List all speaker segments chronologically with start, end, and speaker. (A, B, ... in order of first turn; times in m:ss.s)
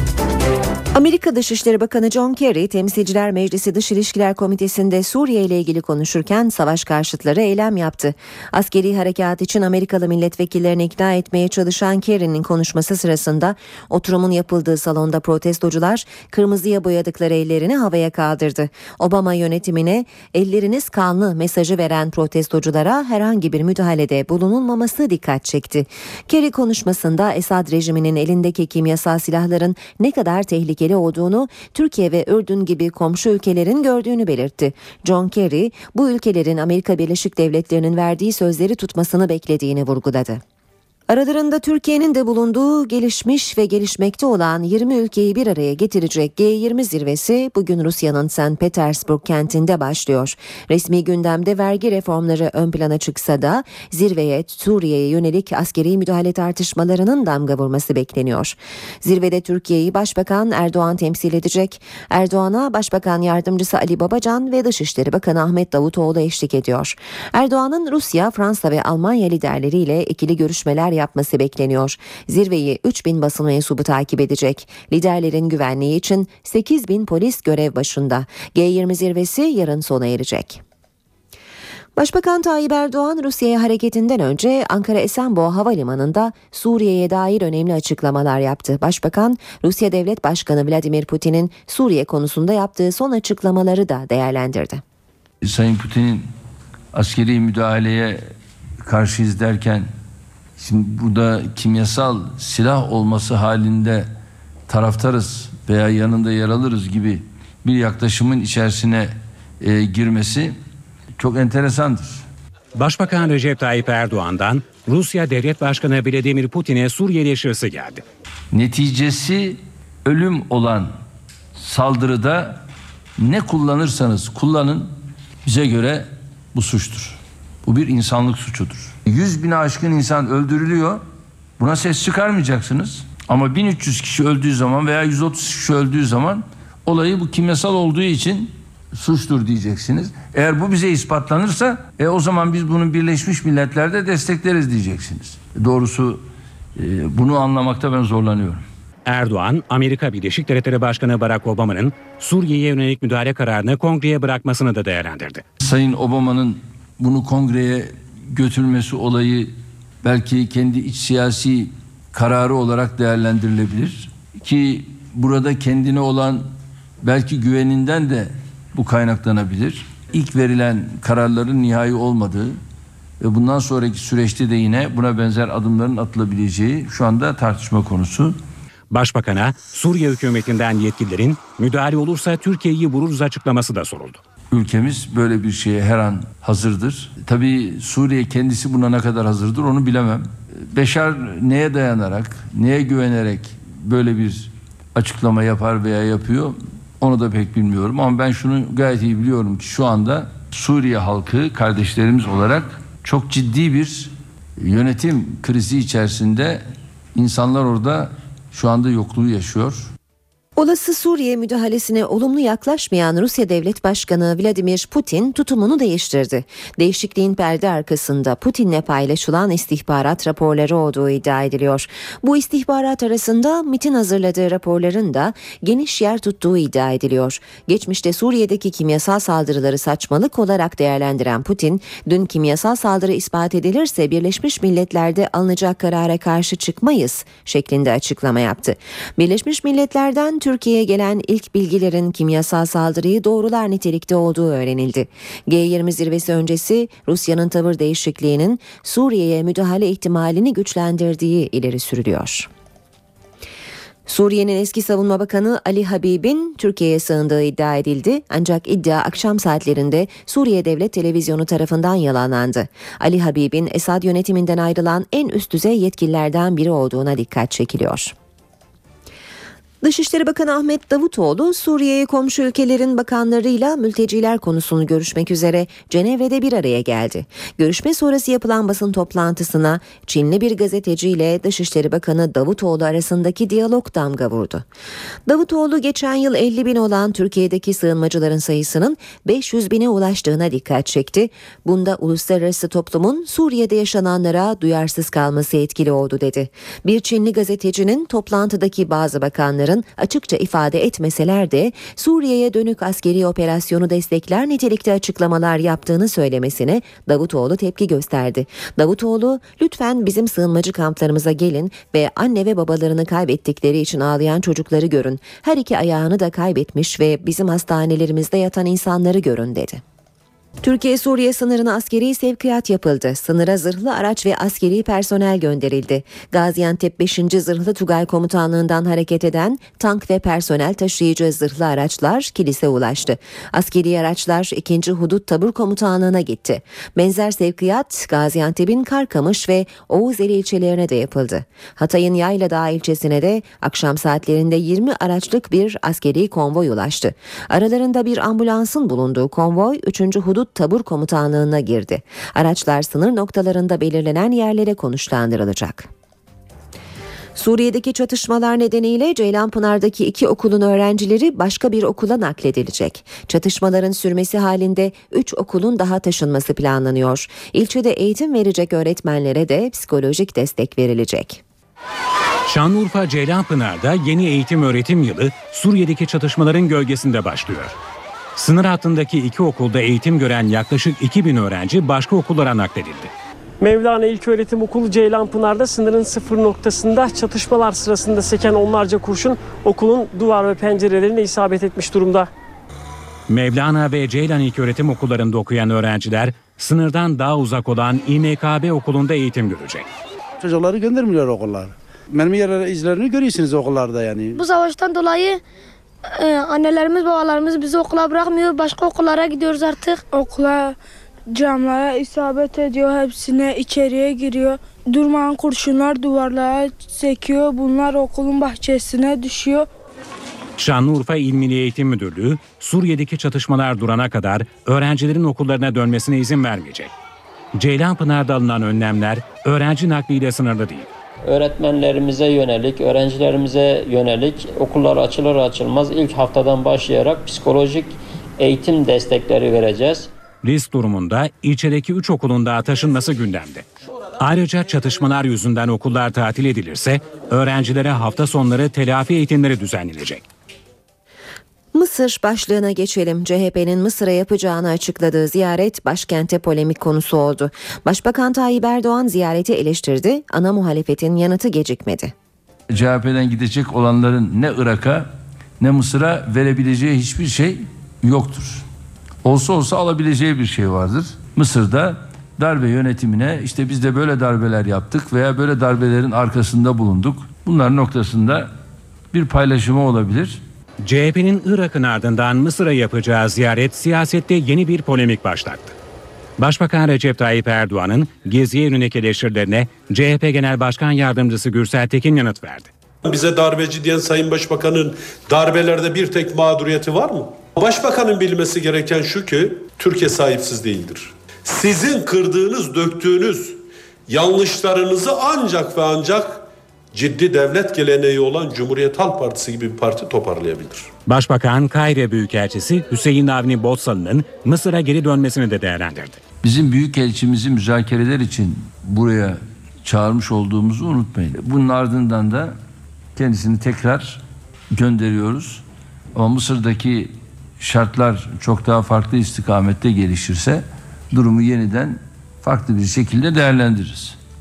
0:00.9-0:40.4 A
0:41.1-1:20.6 A
1:22.0-1:34.8 A
1:35.4-1:36.3 B
1:36.9-1:38.2 B
1:38.8-1:39.9 B
1:40.6-1:44.1 B
1:44.7-1:50.6 B
1:51.2-1:52.2 B
1:52.8-1:58.0 C
1:58.5-2:01.0 B
2:01.6-2:02.6 B
2:03.2-2:11.0 B
2:11.6-2:26.2 B
2:26.8-2:28.6 B
2:29.1-2:35.4 C
2:35.6-2:52.6 B
2:53.2-2:58.4 B
2:58.9-3:04.2 C
3:04.5-3:29.9 B
3:30.6-4:12.5 A
4:14.1-4:28.1 A
4:29.8-4:44.6 A
4:45.3-5:19.8 A
5:20.6-5:55.9 A
5:57.4-6:11.4 A
6:12.5-6:17.8 C
6:18.4-6:23.1 C
6:23.6-6:32.3 D
6:33.3-6:39.8 C
6:40.4-6:44.4 E
6:44.4-6:45.4 F
6:46.1-6:50.0 F
6:50.1-6:50.8 G
6:51.3-6:59.6 G
7:00.6-7:06.9 C
7:07.5-7:10.9 C
7:11.2-7:20.1 H
7:20.4-7:23.6 C
7:24.2-7:30.2 C
7:31.7-7:42.1 A
7:42.7-7:48.6 B
7:49.2-7:58.5 B
7:59.1-8:00.4 B
8:00.8-8:05.7 C
8:06.4-8:12.7 C
8:13.0-8:30.9 I
8:31.1-8:36.2 C
8:36.4-8:42.5 B
8:43.1-8:45.6 B
8:46.1-8:54.2 B